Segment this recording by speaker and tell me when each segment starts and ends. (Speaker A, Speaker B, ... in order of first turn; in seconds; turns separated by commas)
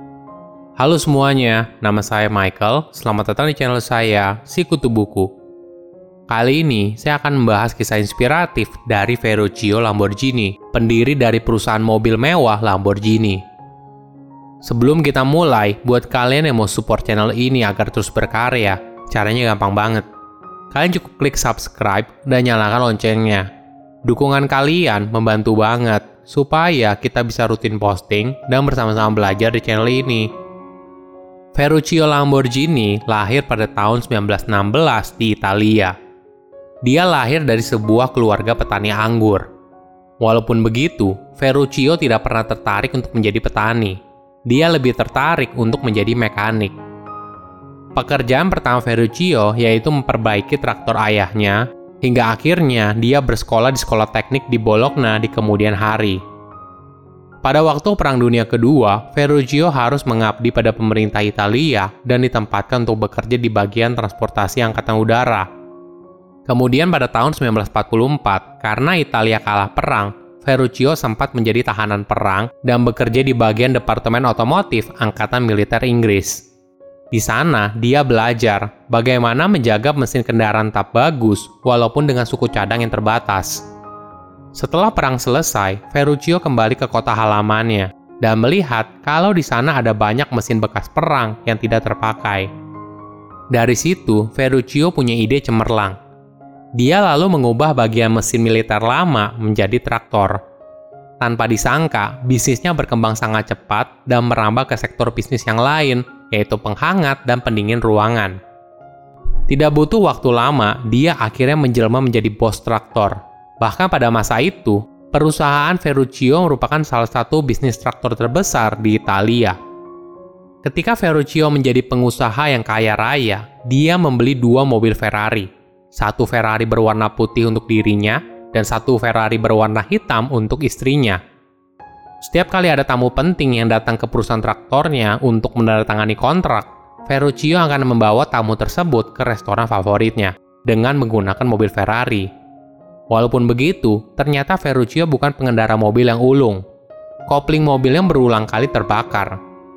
Speaker A: 0.8-5.3, Speaker A: 6.3-13.4, Speaker A: 14.6-20.1, Speaker A: 20.7-23.5, Speaker A: 24.1-30.3, Speaker A: 31.6-36.0, Speaker A: 36.8-39.5, Speaker A: 40.2-46.7, Speaker A: 48.0-56.2, Speaker A: 57.4-65.5, Speaker A: 66.5-76.4, Speaker A: 77.1-83.6, Speaker A: 84.5-92.5, Speaker A: 93.5-96.0, Speaker A: 96.8-100.4, Speaker A: 101.2-108.4, Speaker A: 109.5-119.6, Speaker A: 120.6-131.2, Speaker A: 132.2-142.3, Speaker A: 143.1-146.6, Speaker A: 147.3-149.3